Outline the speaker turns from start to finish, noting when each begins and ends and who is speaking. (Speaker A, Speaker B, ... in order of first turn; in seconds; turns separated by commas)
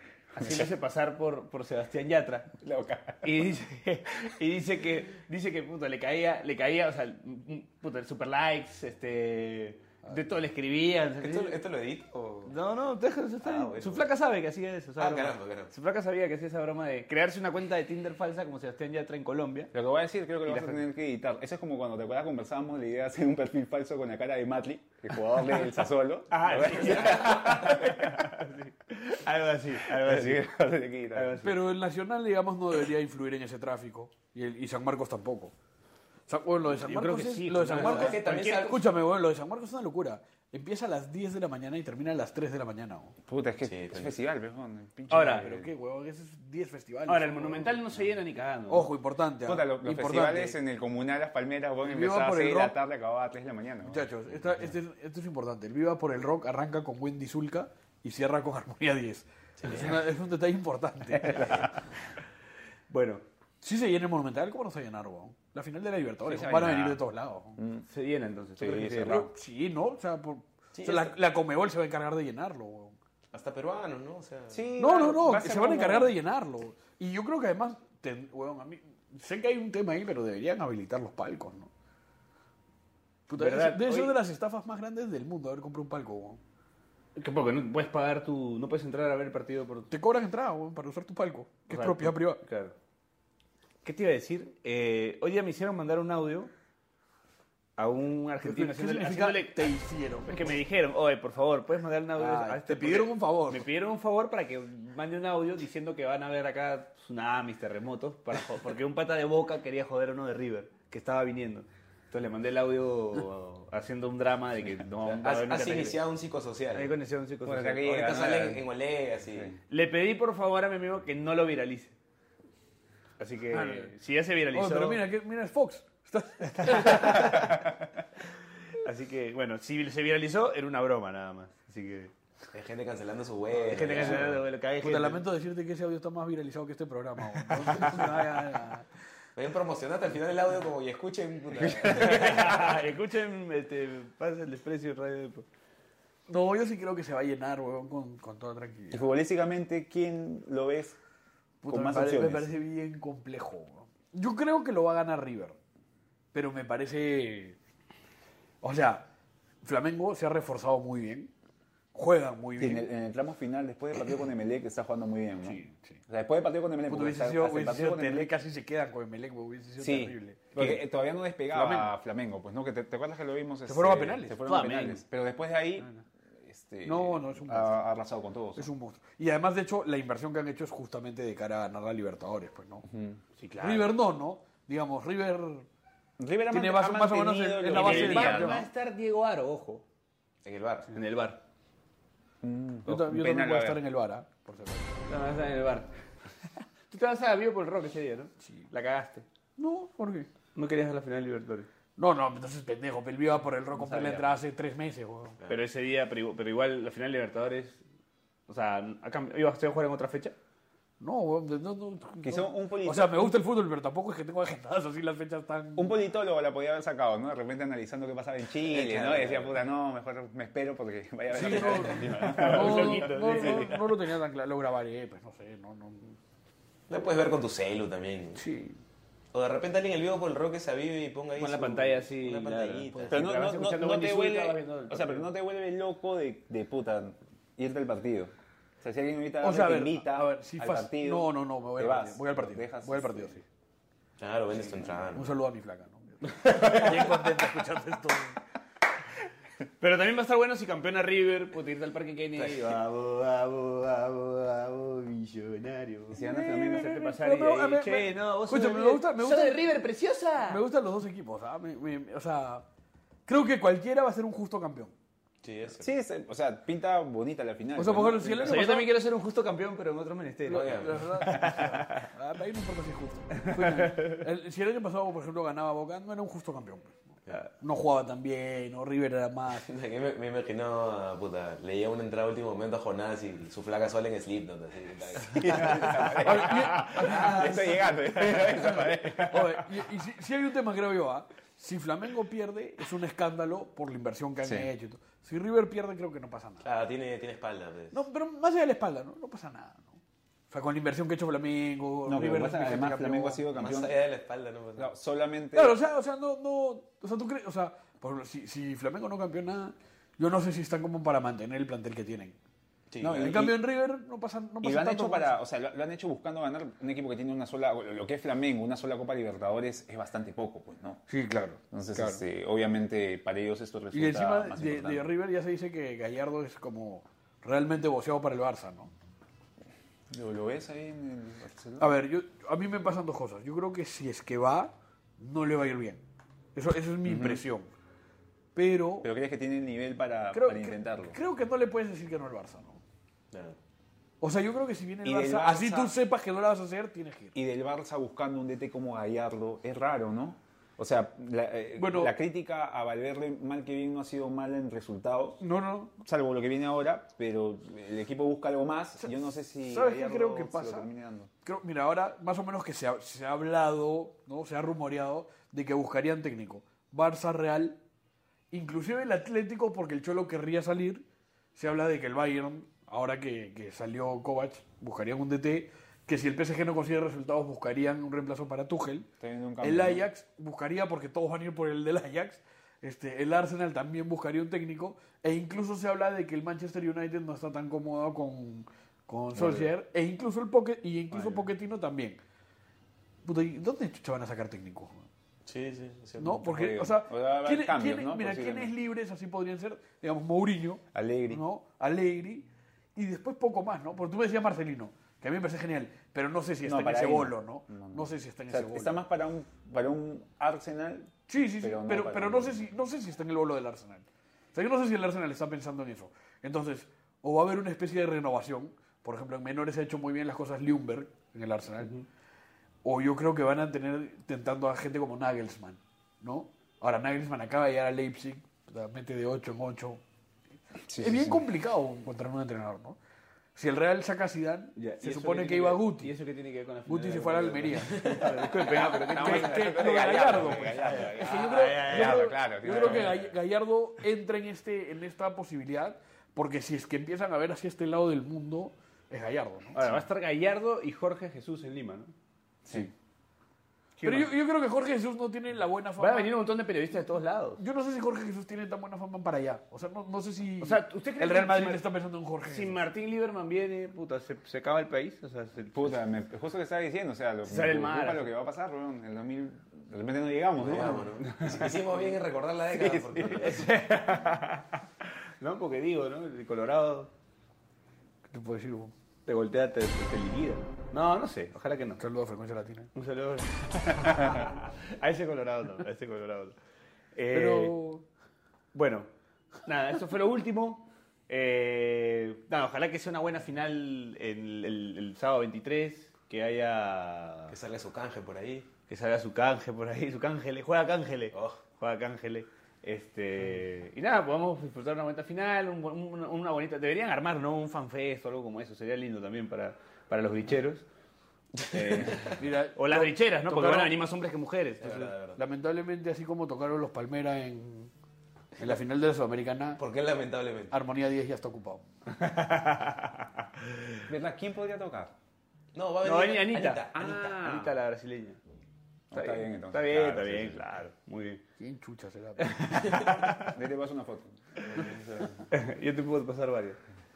Speaker A: 0.3-2.5, Speaker B: 0.4-0.7, Speaker B: 2.6-3.4, Speaker A: 3.2-11.6, Speaker C: 11.2-12.6, Speaker A: 12.5-19.7, Speaker C: 13.4-14.1, Speaker C: 15.0-15.7, Speaker B: 19.7-28.4, Speaker A: 20.5-20.8, Speaker A: 26.3-30.4, Speaker B: 29.9-31.4, Speaker A: 31.1-31.6, Speaker D: 31.4-35.5, Speaker D: 36.3-43.1, Speaker A: 36.7-38.7, Speaker C: 37.7-38.9, Speaker B: 43.2-45.7, Speaker C: 43.6-44.1, Speaker A: 45.1-45.5, Speaker D: 45.1-47.8, Speaker A: 47.1-48.9, Speaker D: 48.7-50.6, Speaker B: 49.5-54.1, Speaker D: 51.8-52.7, Speaker D: 53.8-61.7, Speaker C: 59.6-60.0, Speaker A: 62.9-63.2, Speaker D: 63.6-67.6, Speaker B: 66.3-67.0, Speaker B: 67.6-67.9, Speaker A: 67.9-69.2, Speaker B: 68.6-69.3, Speaker D: 69.1-73.0, Speaker C: 70.7-71.2, Speaker C: 73.3-74.7, Speaker B: 74.5-76.2, Speaker D: 74.8-81.7, Speaker D: 83.3-86.4, Speaker A: 83.4-84.2, Speaker A: 87.2-89.9, Speaker D: 89.9-92.4, Speaker A: 91.7-92.7, Speaker A: 93.8-96.5, Speaker A: 97.8-99.7, Speaker D: 98.4-100.6, Speaker A: 100.3-116.0, Speaker D: 102.2-103.7, Speaker C: 115.2-116.9, Speaker A: 116.7-118.0, Speaker B: 117.4-118.7, Speaker C: 117.8-119.6, Speaker A: 119.7-122.0, Speaker A: 123.2-125.0, Speaker D: 123.5-123.9, Speaker D: 124.5-127.5, Speaker A: 126.6-127.4, Speaker A: 128.7-132.1, Speaker C: 132.5-134.4, Speaker A: 133.6-135.2, Speaker D: 134.8-138.9, Speaker A: 137.6-138.0, Speaker C: 139.4-142.7, Speaker A: 141.8-145.5, Speaker D: 146.3-149.0, Speaker B: 148.9-151.0, Speaker D: 151.6-155.6, Speaker B: 151.7-152.5, Speaker D: 156.3-157.6, Speaker D: 158.6-159.1, Speaker D: 159.6-161.3, Speaker D: 161.9-162.9, Speaker B: 162.6-168.3, Speaker D: 165.5-166.0, Speaker D: 166.9-170.8, Speaker B: 169.8-175.9, Speaker D: 171.5-171.9, Speaker D: 173.7-174.5, Speaker A: 174.5-175.0, Speaker B: 176.4-178.7, Speaker D: 176.8-177.8, Speaker D: 178.6-182.9, Speaker B: 182.9-183.2, Speaker A: 183.4-183.9, Speaker D: 183.6-185.7, Speaker B: 186.2-188.6, Speaker D: 186.5-188.7, Speaker A: 187.7-189.8, Speaker C: 190.4-190.9, Speaker A: 190.9-191.4, Speaker B: 192.4-193.8, Speaker D: 192.9-195.0, Speaker A: 195.1-195.9, Speaker A: 196.9-199.3, Speaker D: 199.6-200.3, Speaker A: 200.6-201.7, Speaker D: 202.0-205.4, Speaker B: 203.7-204.3, Speaker A: 205.5-207.8, Speaker A: 208.5-210.4, Speaker D: 211.0-215.9, Speaker B: 212.2-213.3, Speaker B: 215.8-223.7, Speaker C: 218.6-219.6, Speaker D: 221.3-226.2, Speaker A: 222.2-223.8, Speaker C: 226.9-228.4, Speaker D: 228.4-228.8, Speaker C: 229.3-233.2, Speaker A: 231.4-235.3, Speaker B: 233.1-243.4, Speaker D: 239.4-243.4, Speaker C: 244.2-245.3, Speaker D: 245.1-248.4, Speaker A: 249.8-260.6, Speaker C: 252.4-252.7, Speaker B: 256.1-257.0, Speaker D: 256.2-259.6, Speaker D: 260.5-262.7, Speaker D: 263.3-264.9, Speaker C: 265.4-265.9, Speaker B: 265.8-268.7, Speaker D: 267.8-268.9, Speaker A: 268.4-272.1, Speaker D: 270.5-276.9, Speaker C: 270.5-271.1, Speaker A: 273.5-274.2, Speaker D: 277.6-279.7, Speaker C: 279.6-286.1, Speaker B: 285.2-289.8, Speaker D: 286.2-288.2, Speaker D: 289.1-296.7, Speaker B: 294.4-294.7, Speaker C: 296.6-298.0, Speaker D: 297.9-300.0, Speaker D: 300.5-303.5, Speaker B: 302.1-304.0, Speaker C: 303.6-304.9, Speaker B: 304.8-305.8, Speaker D: 305.5-312.4, Speaker C: 312.9-313.4, Speaker B: 313.0-313.6, Speaker D: 313.2-315.4, Speaker B: 314.6-321.0, Speaker D: 321.1-322.2, Speaker B: 321.7-325.1, Speaker D: 323.9-328.9, Speaker B: 330.1-331.9, Speaker D: 331.8-336.0, Speaker D: 336.6-337.7, Speaker B: 337.1-337.4, Speaker D: 338.6-339.1, Speaker B: 339.0-341.2, Speaker D: 340.3-342.8, Speaker C: 343.3-343.6, Speaker D: 344.2-347.4, Speaker B: 345.0-346.0, Speaker B: 347.3-355.4, Speaker D: 351.8-352.1, Speaker D: 355.4-355.9, Speaker B: 356.0-361.3, Speaker D: 359.0-360.9, Speaker D: 361.4-367.8, Speaker D: 368.5-371.1, Speaker D: 371.6-379.1, Speaker B: 379.2-380.1, Speaker D: 379.6-392.2, Speaker B: 389.4-389.6, Speaker D: 393.2-395.1, Speaker C: 395.5-396.4, Speaker D: 396.2-409.0, Speaker B: 396.4-398.7, Speaker B: 400.9-401.4, Speaker B: 406.6-412.6, Speaker D: 411.3-421.9, Speaker D: 422.8-430.0, Speaker B: 430.9-431.4, Speaker D: 430.9-433.0, Speaker D: 433.6-436.1, Speaker A: 434.8-443.1, Speaker D: 436.9-449.8, Speaker C: 437.8-438.7, Speaker B: 439.0-443.4, Speaker A: 449.8-452.1, Speaker A: 454.0-454.3, Speaker D: 454.0-456.3, Speaker A: 456.0-457.6, Speaker D: 457.6-462.8, Speaker A: 460.6-461.8, Speaker A: 462.5-465.9, Speaker B: 465.7-471.8, Speaker A: 467.5-468.3, Speaker C: 470.6-473.7, Speaker B: 472.8-473.4, Speaker A: 473.2-474.8, Speaker A: 475.4-477.1, Speaker D: 478.3-478.9, Speaker A: 479.3-482.0, Speaker D: 482.0-482.9, Speaker A: 482.9-486.6, Speaker A: 487.1-487.8, Speaker D: 487.3-488.0, Speaker A: 488.7-489.1, Speaker A: 489.6-497.6, Speaker C: 497.5-498.7, Speaker A: 498.9-510.9, Speaker C: 501.3-501.6, Speaker A: 511.7-515.1, Speaker D: 512.4-513.9, Speaker C: 514.8-515.4, Speaker D: 515.3-517.9, Speaker D: 518.6-519.8, Speaker C: 519.8-520.8, Speaker D: 520.7-521.8, Speaker A: 522.2-523.3, Speaker B: 524.1-525.1, Speaker C: 525.7-527.6, Speaker A: 526.0-528.4, Speaker B: 527.0-527.7, Speaker B: 529.1-530.6, Speaker A: 529.1-531.4, Speaker D: 531.6-532.9, Speaker A: 532.4-533.6, Speaker B: 533.2-534.8, Speaker C: 534.7-535.4, Speaker A: 535.5-536.8